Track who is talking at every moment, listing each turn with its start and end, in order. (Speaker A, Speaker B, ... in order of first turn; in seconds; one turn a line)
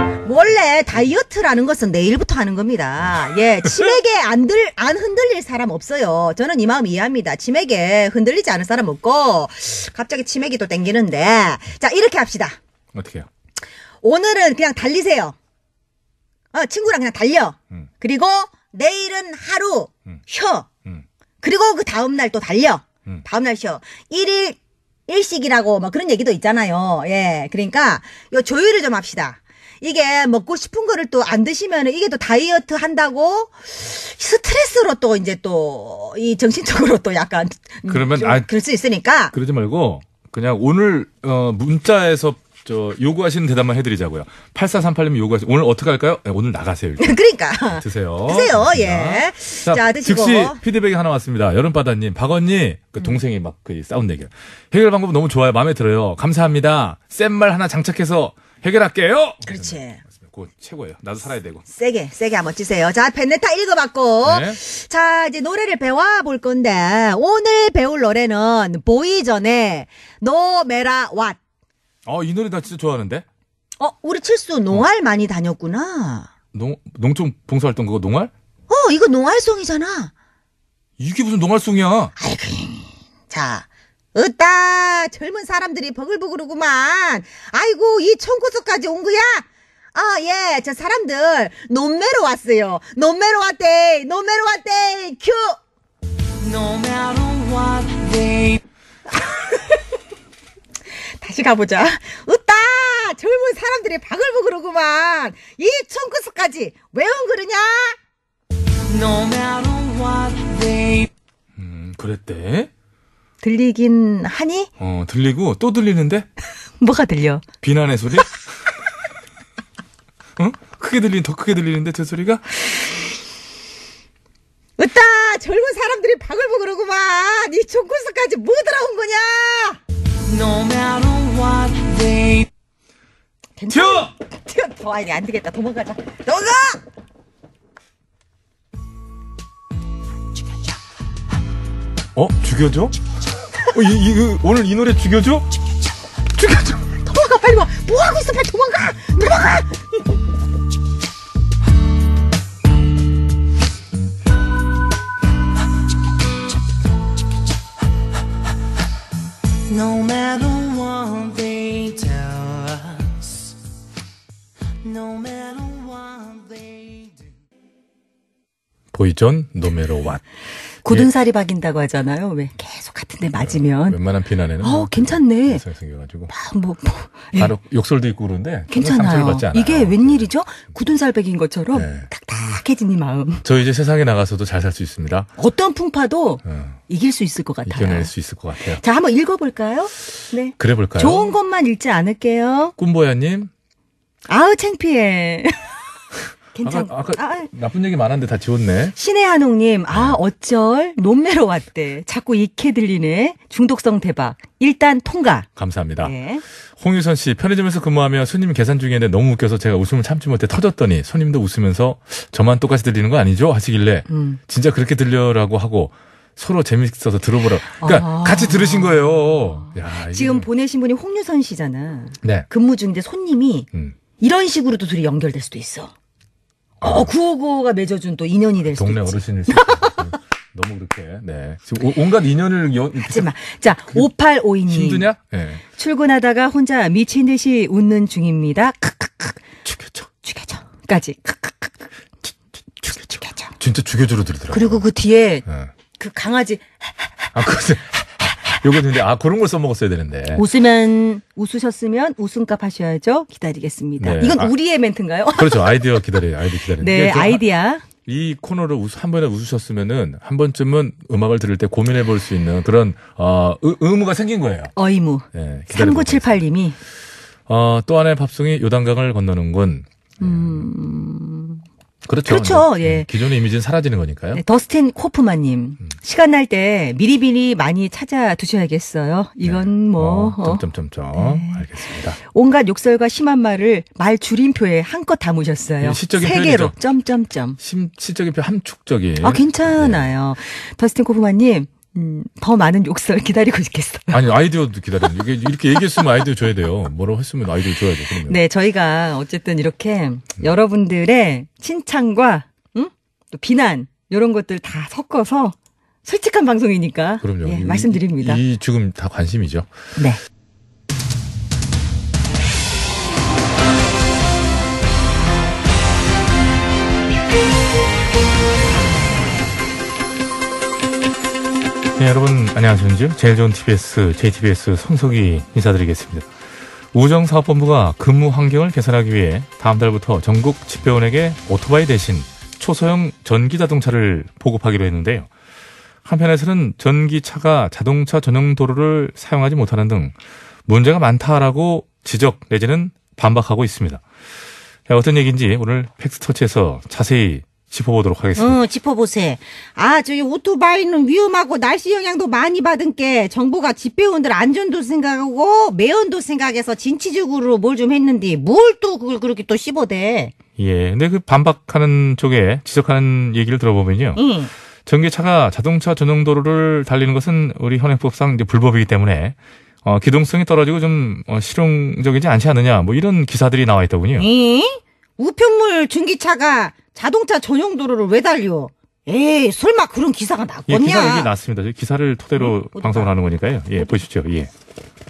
Speaker A: 0.2-12.6
Speaker B: 3.1-4.0
Speaker B: 12.9-13.3
Speaker A: 14.0-15.3
Speaker A: 16.5-20.7
Speaker A: 21.4-24.6
Speaker A: 25.1-39.3
Speaker B: 37.9-38.5
Speaker B: 39.3-47.2
Speaker A: 47.0-50.6
Speaker B: 47.8-61.6
Speaker A: 59.5-60.0
Speaker A: 61.7-71.4
Speaker B: 64.2-64.6
Speaker B: 72.1-73.3
Speaker A: 73.8-76.3
Speaker B: 76.5-78.3
Speaker A: 78.7-80.1
Speaker B: 81.0-82.1
Speaker A: 82.2-95.6
Speaker C: 96.4-98.6
Speaker A: 99.1-99.6
Speaker A: 101.2-108.0
Speaker C: 108.9-111.1
Speaker B: 111.6-112.7
Speaker A: 113.4-114.7
Speaker B: 114.8-116.3
Speaker A: 116.8-117.4
Speaker B: 117.6-118.4
Speaker B: 120.4-122.4
Speaker A: 124.8-129.8
Speaker C: 130.3-132.5
Speaker A: 133.6-136.8
Speaker B: 133.7-134.1
Speaker B: 142.2-143.0
Speaker B: 143.7-145.5
Speaker B: 146.4-146.8
Speaker A: 147.0-149.9
Speaker C: 159.7-163.2
Speaker C: 164.8-167.2
Speaker B: 168.9-170.2
Speaker B: 170.8-171.1
Speaker A: 170.8-174.0
Speaker B: 173.4-176.3
Speaker A: 174.6-175.6
Speaker A: 176.3-177.5
Speaker B: 177.3-180.3
Speaker A: 178.7-183.4
Speaker B: 181.7-182.1
Speaker B: 183.4-185.3
Speaker A: 185.4-188.1
Speaker B: 186.4-186.8
Speaker B: 187.7-188.8
Speaker A: 188.8-192.8
Speaker B: 190.6-191.3
Speaker B: 192.8-193.5
Speaker A: 194.3-195.6
Speaker A: 196.6-197.5
Speaker B: 196.6-198.9
Speaker A: 199.0-205.5
Speaker B: 199.9-200.2
Speaker B: 205.6-206.1
Speaker A: 206.0-206.4
Speaker B: 206.8-220.5
Speaker A: 214.1-214.4
Speaker A: 217.8-223.7
Speaker A: 224.2-225.9
Speaker B: 226.8-227.1
Speaker A: 226.8-230.0
Speaker B: 228.7-233.3
Speaker A: 232.9-235.1
Speaker B: 234.7-235.6
Speaker A: 235.8-239.4
Speaker B: 239.7-240.1
Speaker A: 240.2-241.9
Speaker A: 242.8-243.5
Speaker B: 243.6-244.8
Speaker A: 244.5-245.4
Speaker A: 246.0-247.3
Speaker B: 247.3-250.4
Speaker A: 250.3-256.0
Speaker B: 254.0-254.5
Speaker B: 255.4-257.4
Speaker A: 256.8-257.8
Speaker B: 258.1-264.7
Speaker A: 264.8-266.8
Speaker B: 265.3-266.4
Speaker B: 267.5-270.6
Speaker A: 270.2-271.6
Speaker B: 272.1-274.4
Speaker A: 272.3-273.1
Speaker A: 274.3-280.6
Speaker B: 279.4-282.2
Speaker A: 281.1-287.6
Speaker B: 285.8-286.8
Speaker B: 287.6-290.1
Speaker A: 289.2-294.2
Speaker B: 294.1-298.4
Speaker A: 298.3-308.4
Speaker B: 307.2-309.7
Speaker B: 322.0-326.3
Speaker B: 326.9-335.3
Speaker B: 336.1-340.1
Speaker B: 340.7-344.0
Speaker B: 344.9-348.6
Speaker A: 348.4-360.3
Speaker B: 360.6-364.2
Speaker A: 364.2-364.5
Speaker B: 364.9-374.3
Speaker A: 374.2-381.3
Speaker B: 380.7-384.5
Speaker A: 382.4-383.1